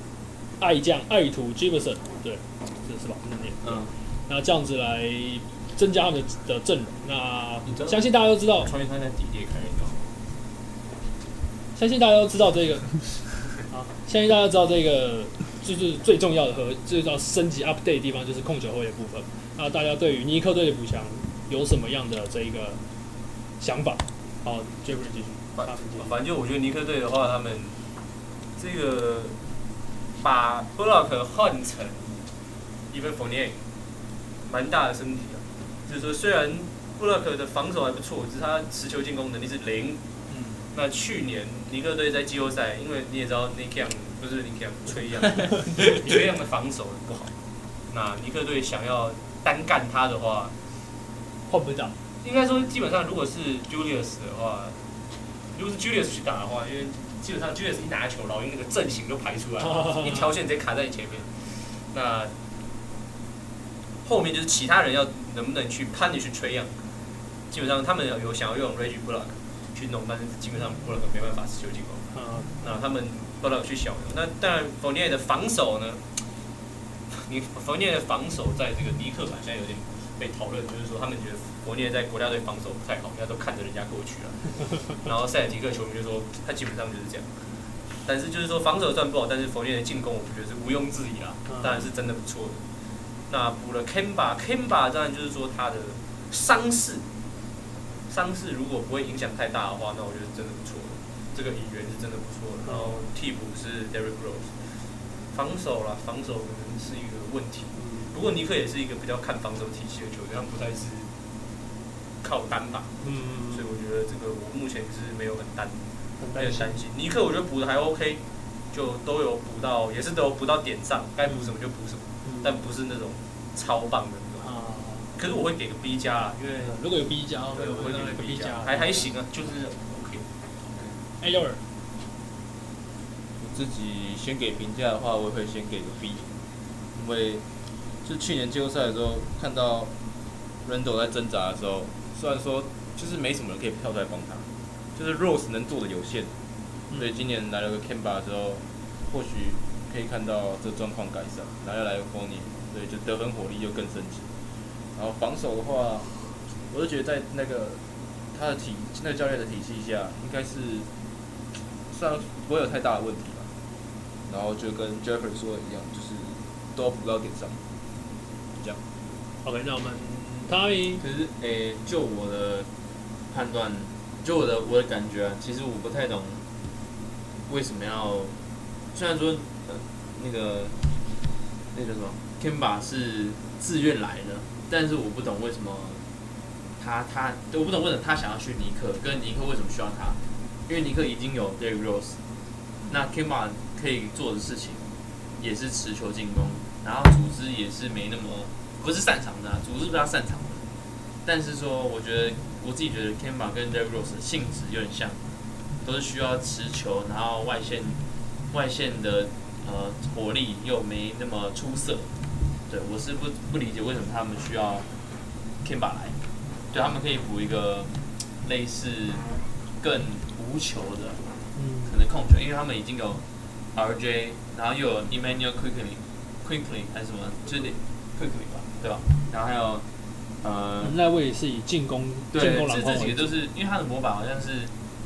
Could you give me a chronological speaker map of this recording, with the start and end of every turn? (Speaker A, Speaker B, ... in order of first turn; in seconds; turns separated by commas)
Speaker A: 0.6-8.7, Speaker B: 3.6-3.9, Speaker C: 7.7-8.0, Speaker C: 8.6-10.1, Speaker A: 11.8-13.0, Speaker A: 13.7-22.8, Speaker A: 23.6-26.1, Speaker C: 25.6-27.8, Speaker C: 28.6-29.4, Speaker C: 30.2-32.2, Speaker C: 32.9-33.5, Speaker C: 34.5-40.0, Speaker A: 40.3-40.6, Speaker C: 40.7-47.3, Speaker C: 47.9-50.5, Speaker A: 51.5-51.9, Speaker C: 52.2-54.8, Speaker C: 55.5-62.3, Speaker A: 59.6-60.3, Speaker C: 64.0-66.8, Speaker C: 67.5-72.0, Speaker A: 72.1-72.6, Speaker C: 72.6-76.0, Speaker C: 77.1-87.3, Speaker C: 88.0-92.6, Speaker A: 91.5-91.9, Speaker C: 93.3-97.0, Speaker C: 98.1-104.6, Speaker A: 102.6-103.0, Speaker C: 105.3-111.1, Speaker A: 107.8-108.1, Speaker C: 112.2-112.9, Speaker A: 113.0-113.8, Speaker C: 113.5-118.2, Speaker A: 116.2-116.8, Speaker C: 118.7-124.5, Speaker A: 122.2-122.6, Speaker A: 124.4-125.1, Speaker C: 125.1-126.8, Speaker A: 126.6-129.1, Speaker C: 127.5-130.2, Speaker A: 131.2-131.6, Speaker D: 133.4-136.2, Speaker D: 136.9-137.4, Speaker D: 138.0-139.9, Speaker D: 140.6-146.3, Speaker A: 146.9-147.2, Speaker D: 146.9-154.3, Speaker D: 154.9-156.1, Speaker D: 156.7-157.8, Speaker D: 158.3-160.9, Speaker D: 161.9-163.5, Speaker D: 164.3-167.6, Speaker A: 169.4-171.0, Speaker B: 171.0-172.7, Speaker B: 173.3-176.4, Speaker B: 177.5-178.4, Speaker B: 178.9-180.8, Speaker B: 181.7-186.0, Speaker B: 186.8-192.2, Speaker B: 192.9-194.9, Speaker B: 195.4-200.7, Speaker B: 201.2-205.2, Speaker B: 205.8-208.0, Speaker B: 208.5-212.1, Speaker B: 212.7-214.9, Speaker B: 215.6-216.2, Speaker B: 216.7-217.9, Speaker B: 218.4-221.2, Speaker A: 221.5-221.9, Speaker B: 221.8-229.8, Speaker B: 230.4-231.0, Speaker A: 230.8-233.3, Speaker B: 232.3-234.7